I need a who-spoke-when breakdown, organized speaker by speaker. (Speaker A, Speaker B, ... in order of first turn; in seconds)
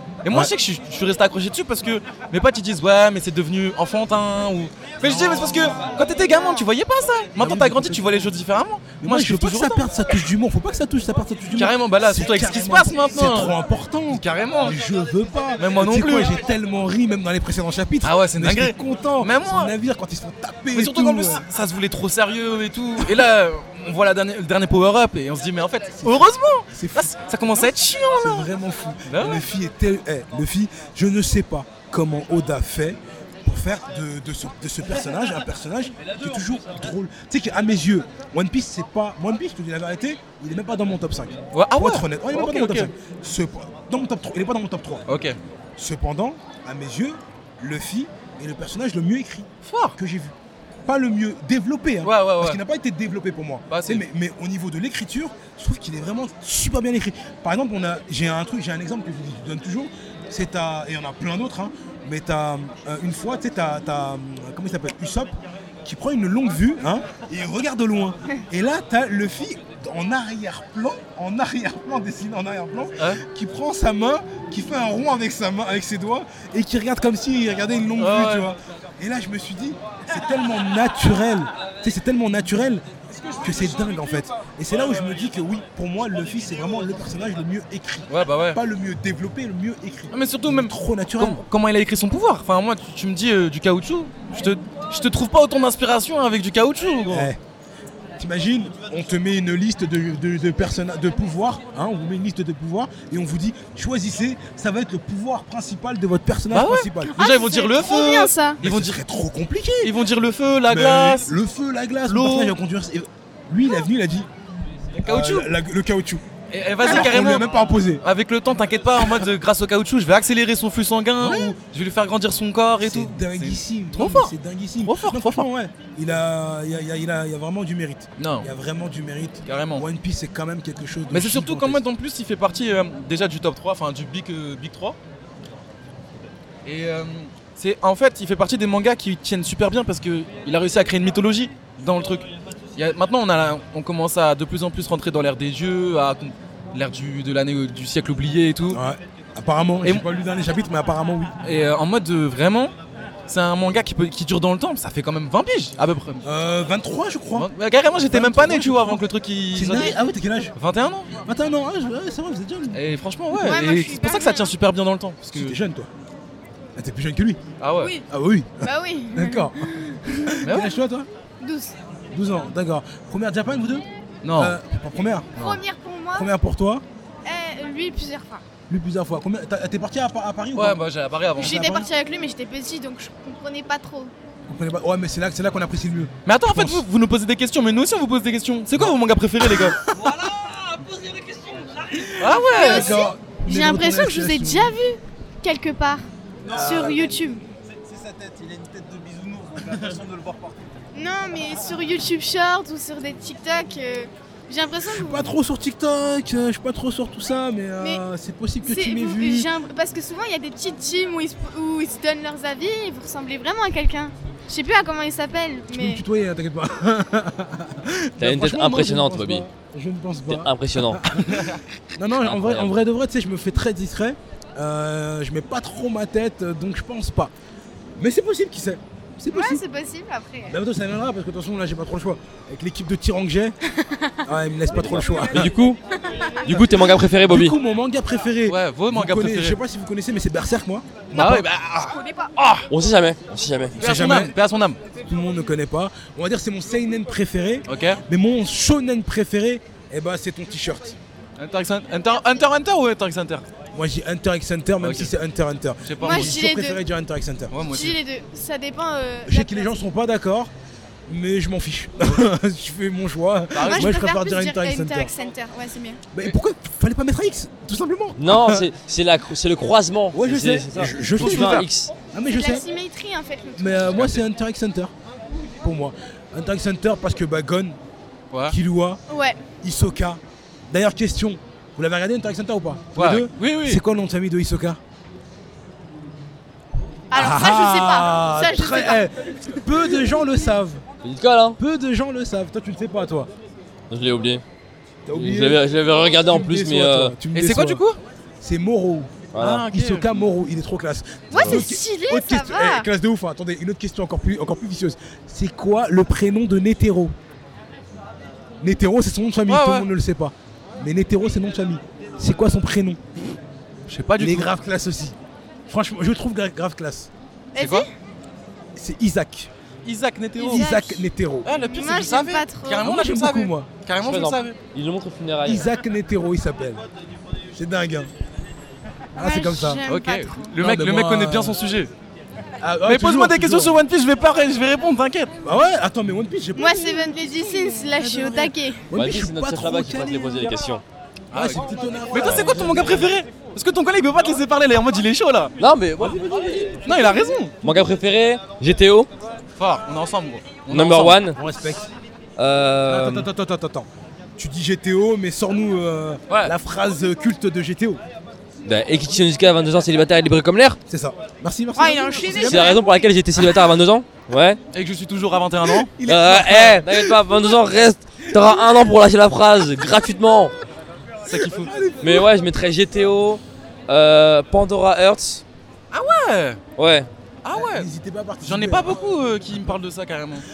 Speaker A: 0.2-9.9, 11.6-13.5, 14.1-14.8, 15.6-16.4, 18.0-19.7, 20.7-28.5, 29.1-29.4, 41.5-42.9, 45.1-45.4, 49.6-50.0, 52.0-52.6, 53.7-54.0, 78.0-78.5, 88.1-88.6, 90.1-97.3, 106.5-109.0, 109.8-111.3, 112.1-112.5, 115.0-115.5, 116.5-117.5, 118.0-124.3, 124.8-125.5, 128.2-128.5, 129.4-129.8, 131.1-135.0, 136.6-148.8, 151.4-152.7, 153.3-156.2, 157.3-159.9, 160.6-161.1, 162.7-165.6, 167.6-167.9, 170.4-170.8, 174.2-174.6, 175.4-175.6, 180.6-181.6, 186.3-189.9, 192.2-193.0, 238.5-239.6, 241.1-242.7, 243.8-244.8, 247.7-248.0, 251.4-253.4, 254.8-255.1, 255.8-256.4, 257.5-258.0, 263.6-264.0, 271.2-271.7, 273.9-274.2, 282.9-283.8, 297.3-298.0, 299.4-300.1, 309.5-309.9, 313.9-314.5, 317.6-317.9, 319.8-320.7, 321.4-324.6, 329.9-331.9, 332.9-335.3, 341.3-345.5, 346.9-347.6, 349.6-351.2, 364.7-365.9, 371.2-371.7, 375.9-376.6, 377.4-377.9, 378.4-380.4
Speaker B: 5.0-6.1, 7.4-8.3, 9.0-21.4, 26.0-45.1, 45.8-50.3, 50.9-65.3, 65.8-91.4, 97.1-97.4, 98.2-107.1, 108.6-109.9, 110.7-114.3, 114.9-116.2, 116.8-118.0, 121.2-121.6, 122.8-131.8, 148.7-151.3, 156.2-160.5, 161.2-162.9, 165.3-165.9, 166.8-167.4, 168.1-171.1, 172.1-175.3, 176.1-176.8, 178.7-180.8, 181.4-181.9, 184.5-186.8, 188.8-190.5, 191.8-194.8, 196.4-197.2, 199.9-200.4, 204.8-209.5, 215.7-227.3, 228.0-229.6, 230.5-233.6, 234.2-235.6, 236.4-241.4, 243.8-244.3, 244.9-251.0, 253.7-257.6, 259.3-260.5, 261.1-265.1, 266.1-268.7, 270.1-272.6, 273.6-274.9, 275.6-277.8, 278.5-279.0, 279.6-284.8, 287.1-290.8, 291.6-293.3, 295.1-297.8, 298.4-307.1, 308.6-313.0, 314.2-315.2, 315.7-317.1, 318.8-319.5, 320.4-321.5, 322.8-323.7, 325.4-326.8, 327.5-328.1, 329.1-329.8, 330.6-331.6, 332.6-333.8, 335.4-340.5, 341.3-343.2, 346.0-346.9, 351.3-351.9, 352.9-358.0, 360.9-362.9, 365.6-367.5, 368.3-368.6, 371.3-372.3, 377.5-379.0
Speaker C: 107.1-108.6, 159.7-160.0, 163.3-164.5, 167.8-168.1, 168.6-170.4, 171.4-171.8, 175.4-176.3, 177.2-178.4, 181.4-184.1, 192.5-197.4, 200.9-205.3, 208.6-216.0, 229.3-230.6, 233.7-234.2, 236.0-236.3, 242.0-242.3, 256.0-256.8, 257.7-259.7, 263.6-266.0, 272.3-274.1, 279.1-279.4, 287.1-289.1, 301.3-302.9, 317.5-317.9, 320.4-321.1, 321.6-322.9, 329.2-330.5, 336.6-338.8, 361.8-362.9
Speaker D: 198.1-200.4
Speaker E: 218.2-219.4, 220.3-221.2, 222.2-222.7, 234.7-235.8, 236.4-237.6, 242.7-243.8, 268.2-271.9, 291.0-291.6, 293.9-294.4, 295.1-297.1, 299.3-299.6, 301.3-301.6, 324.0-325.7, 338.9-340.8, 345.6-346.9, 347.6-349.1, 350.7-351.4, 352.4-353.3, 358.6-360.8, 362.4-364.6, 366.0-370.5, 372.0-375.4, 376.8-377.1